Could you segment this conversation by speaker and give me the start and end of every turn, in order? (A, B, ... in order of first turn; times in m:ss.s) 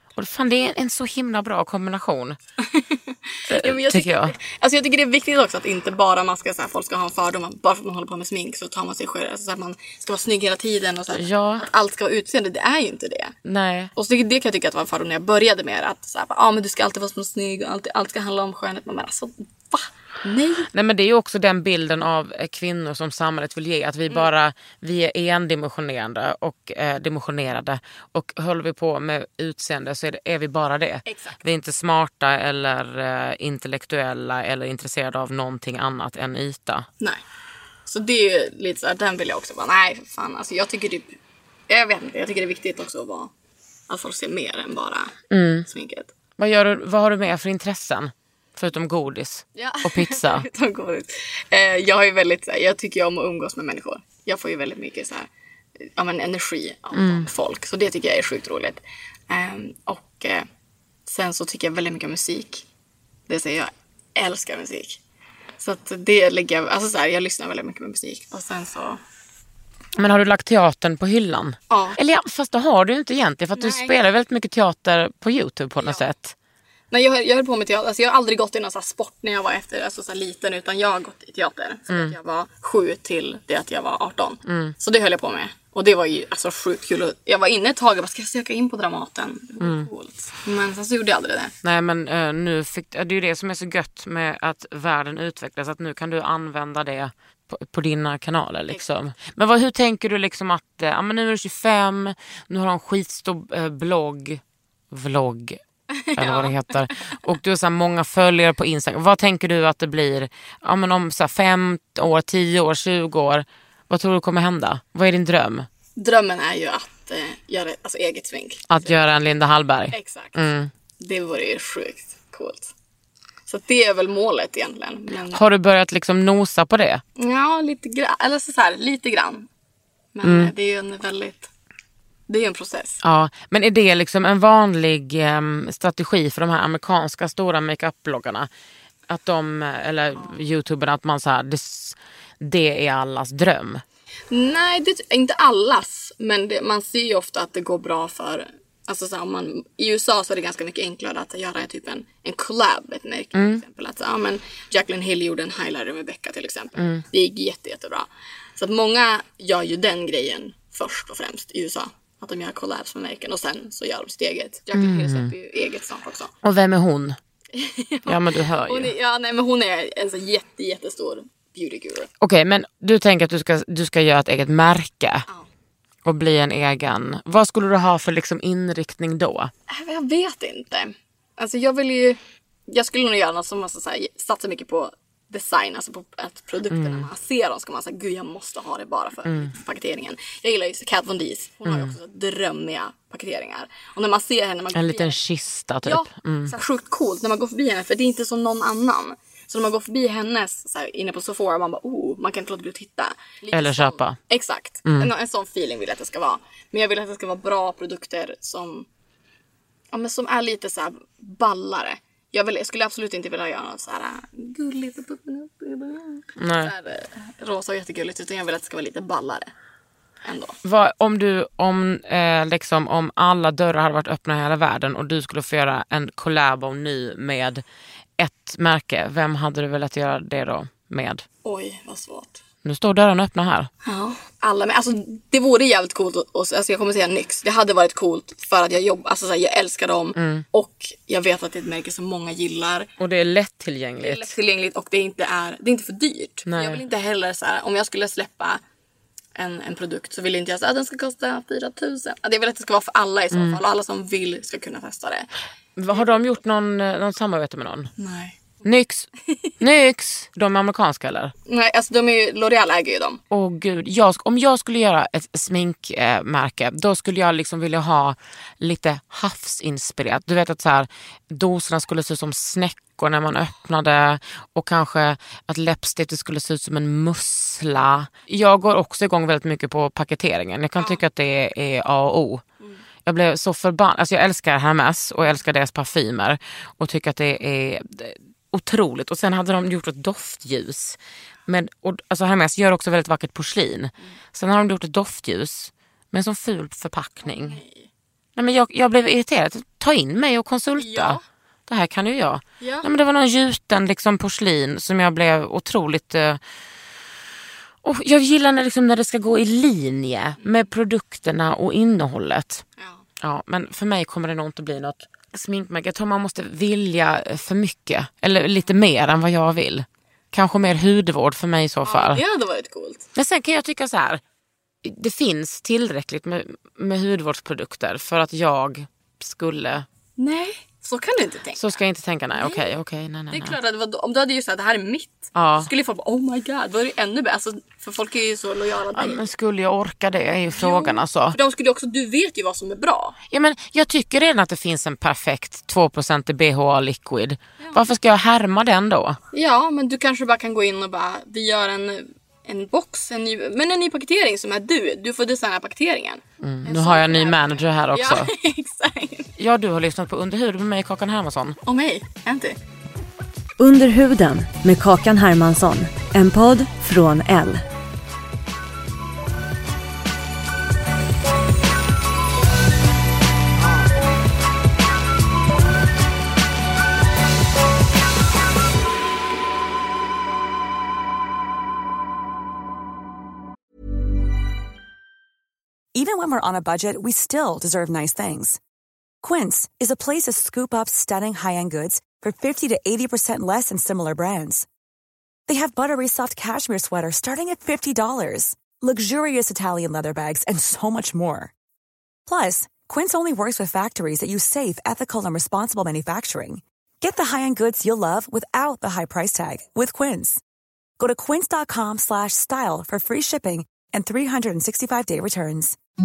0:00.2-0:02.4 A
0:02.6-0:13.4 B
0:03.5-0:04.3 A
0:11.1-0:11.7 A
0:13.4-0:13.9 A
0:14.0-0:20.7 B
0:20.7-0:36.9 A
0:31.1-0:31.4 B
0:37.9-0:41.2 B
0:41.7-0:43.3 B
0:43.9-0:46.1 B
0:45.3-0:45.7 A
0:46.4-0:50.5 A
0:49.6-0:55.3 B
0:56.0-1:00.5 B
0:56.9-0:57.3 A
1:01.1-1:02.6 B
1:03.3-1:05.0 B
1:05.6-1:09.0 B
1:10.0-1:16.4 A
1:11.7-1:12.0 B
1:13.6-1:13.9 B
1:15.8-1:16.1 B
1:16.9-1:31.5 B
1:21.9-1:22.2 A
1:24.5-1:24.7 A
1:29.6-1:29.9 A
1:31.6-1:45.6 A
1:45.9-1:47.1 B
1:46.2-1:55.7 A
1:56.0-1:59.0 B
1:58.7-2:00.7 A
1:59.9-2:00.4 B
2:01.0-2:02.7 B
2:03.5-2:05.4 B
2:05.3-2:07.0 A
2:07.2-2:09.5 B
2:10.1-2:11.5 B
2:10.2-2:10.5 A
2:12.3-2:13.0 B
2:13.0-2:18.5 A
2:19.1-2:23.8 A
2:24.3-2:46.3 B
2:33.4-2:33.6 A
2:36.8-2:37.0 A
2:44.7-2:45.3 A
2:46.4-2:47.2 A
2:47.5-2:52.1 B
2:48.1-2:48.9 A
2:52.2-2:55.3 A
2:56.0-2:59.5 A
2:59.7-3:15.2 B
3:06.7-3:07.1 A
3:09.3-3:09.5 A
3:11.7-3:12.0 A
3:14.7-3:16.6 A
3:15.8-3:28.9 B
3:23.5-3:24.2 A
3:24.9-3:25.1 A
3:29.9-3:39.5 B
3:36.4-3:36.7 A
3:40.2-3:40.6 B
3:40.6-3:47.6 A
3:48.2-3:51.2 A
3:51.4-3:52.4 B
3:52.6-3:53.7 A
3:53.8-4:02.9 B
4:00.2-4:00.4 A
4:03.0-4:04.3 A
4:04.0-4:08.6 B
4:06.5-4:06.8 A
4:09.4-4:15.3 B
4:13.3-4:13.6 A
4:15.8-4:17.9 A
4:15.9-4:16.2 B
4:18.0-4:18.6 B
4:18.6-4:19.1 A
4:19.6-4:21.3 A
4:21.5-4:23.2 B
4:23.3-4:42.4 A
4:43.1-4:57.6 A
4:57.2-4:57.9 B
4:58.4-5:06.4 A
5:00.8-5:01.2 B
5:02.6-5:02.9 B
5:07.8-5:12.6 A
5:10.4-5:10.7 B
5:12.8-5:13.0 B
5:13.2-5:22.2 A
5:21.8-5:23.1 B
5:23.2-5:24.2 A
5:24.8-5:29.9 A
5:30.2-5:31.8 B
5:31.6-5:33.6 A
5:32.3-5:32.8 B
5:33.3-5:39.3 B
5:35.4-5:35.7 A
5:38.9-5:41.4 A
5:40.5-5:43.2 B
5:43.3-5:49.2 A
5:47.6-5:47.9 B
5:49.3-5:59.3 B
5:56.4-5:58.3 A
5:59.4-6:01.6 A
6:01.7-6:02.6 B
6:03.6-6:07.6 C
6:26.0-6:28.6 D
6:29.2-6:34.7 D
6:35.5-6:41.5 D
6:42.3-6:50.4 D
6:51.0-6:55.8 D